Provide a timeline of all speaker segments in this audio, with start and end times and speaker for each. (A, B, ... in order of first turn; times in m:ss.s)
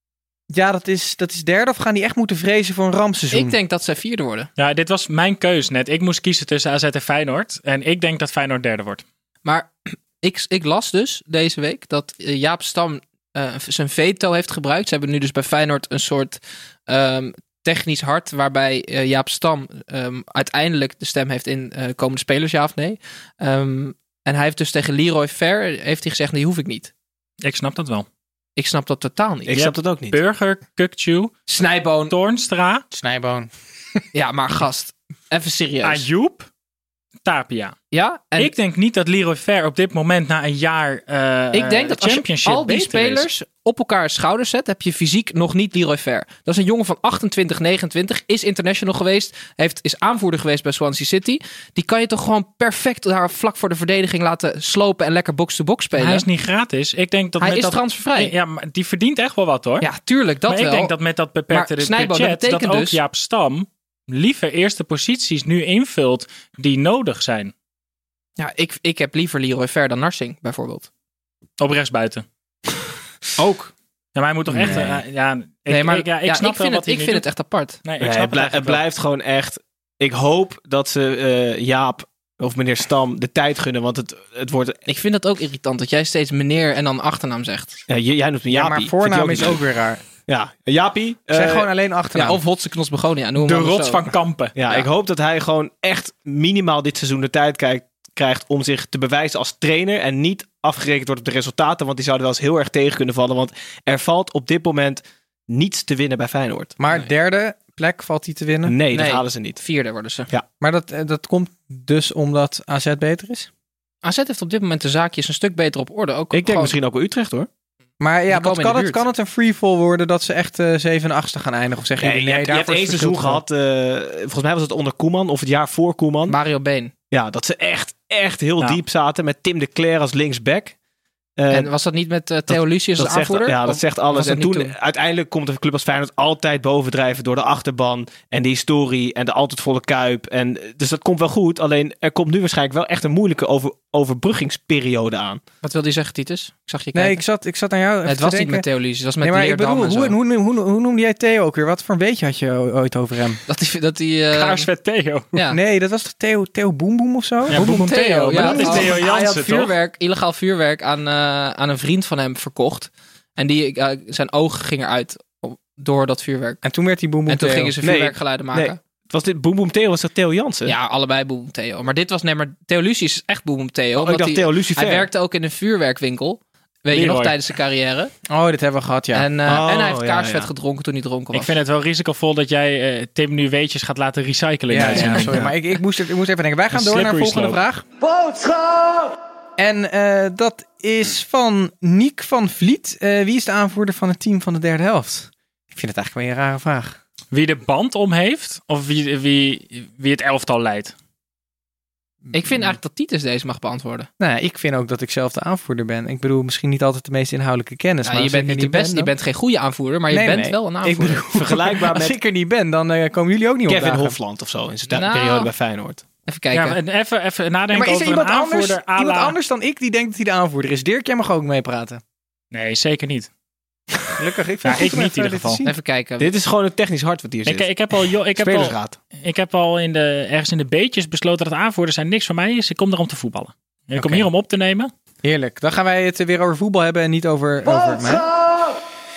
0:00.5-0:03.6 A
0:03.3-0:04.5 B
0:04.6-0:09.0 C
0:09.4-0:26.9 B
0:27.4-0:28.1 C
0:28.6-0:29.5 B
0:29.5-0:30.2 D
0:29.5-0:31.4 C
0:31.5-0:32.1 B
0:32.1-0:32.8 C
0:32.9-0:33.5 A
0:34.1-0:36.0 B
0:35.8-0:36.5 C
0:37.2-0:37.8 C
0:37.9-0:38.5 B
0:38.4-0:43.2 C
0:41.5-0:56.2 B
0:56.0-0:59.8 C
0:57.4-0:58.3 B
0:59.8-1:00.9 B
1:00.5-1:07.5 C
1:01.5-1:03.0 B
1:08.4-1:10.9 B
1:11.6-1:12.2 C
1:14.1-1:17.2 C
1:14.6-1:14.9 D
1:15.7-1:17.8 B
1:17.8-1:18.8 C
1:18.0-1:24.8 D
1:24.9-1:27.8 B
1:27.9-1:29.6 D
1:28.5-1:30.0 A
1:30.2-1:31.7 D
1:31.3-1:32.4 A
1:32.1-1:34.0 B
1:33.4-1:34.5 C
1:34.6-1:46.7 D
1:46.8-1:48.7 A
1:48.6-1:49.6 D
1:48.9-1:50.3 B
1:50.6-1:53.5 A
1:54.0-1:56.8 B
1:56.3-1:57.5 D
1:58.0-2:03.4 A
1:58.3-1:59.0 B
2:02.0-2:06.4 D
2:06.3-2:06.9 B
2:07.1-2:10.8 D
2:11.4-2:11.7 D
2:11.5-2:14.7 B
2:12.5-2:25.4 D
2:25.6-2:27.2 B
2:26.9-2:28.6 A
2:28.0-2:30.2 B
2:29.2-2:33.4 A
2:33.5-2:34.7 B
2:34.3-2:35.3 C
2:35.3-2:35.6 B
2:35.5-2:39.0 A
2:37.5-2:39.7 C
2:37.5-2:46.6 B
2:46.6-2:47.7 A
2:47.3-2:48.8 B
2:47.8-2:50.8 D
2:50.6-2:58.1 B
2:54.0-2:55.1 D
2:56.9-2:57.4 C
2:58.3-2:59.3 A
2:59.1-3:01.5 B
2:59.4-3:00.5 D
3:01.3-3:05.5 C
3:04.7-3:07.8 A
3:06.7-3:07.6 C
3:09.6-3:17.0 A
3:17.3-3:20.9 C
3:22.3-3:22.8 A
3:22.3-3:24.1 B
3:24.2-3:29.1 A
3:28.0-3:31.2 B
3:30.1-3:34.2 A
3:31.2-3:32.2 D
3:33.7-3:36.0 D
3:34.9-3:35.5 B
3:36.2-3:36.8 B
3:36.5-3:39.4 C
3:37.7-3:42.0 A
3:42.5-3:43.3 C
3:44.1-3:45.7 A
3:44.6-3:45.6 C
3:45.6-3:46.3 B
3:46.2-3:47.7 D
3:47.4-3:54.9 C
3:48.4-3:49.0 D
3:55.2-3:58.3 A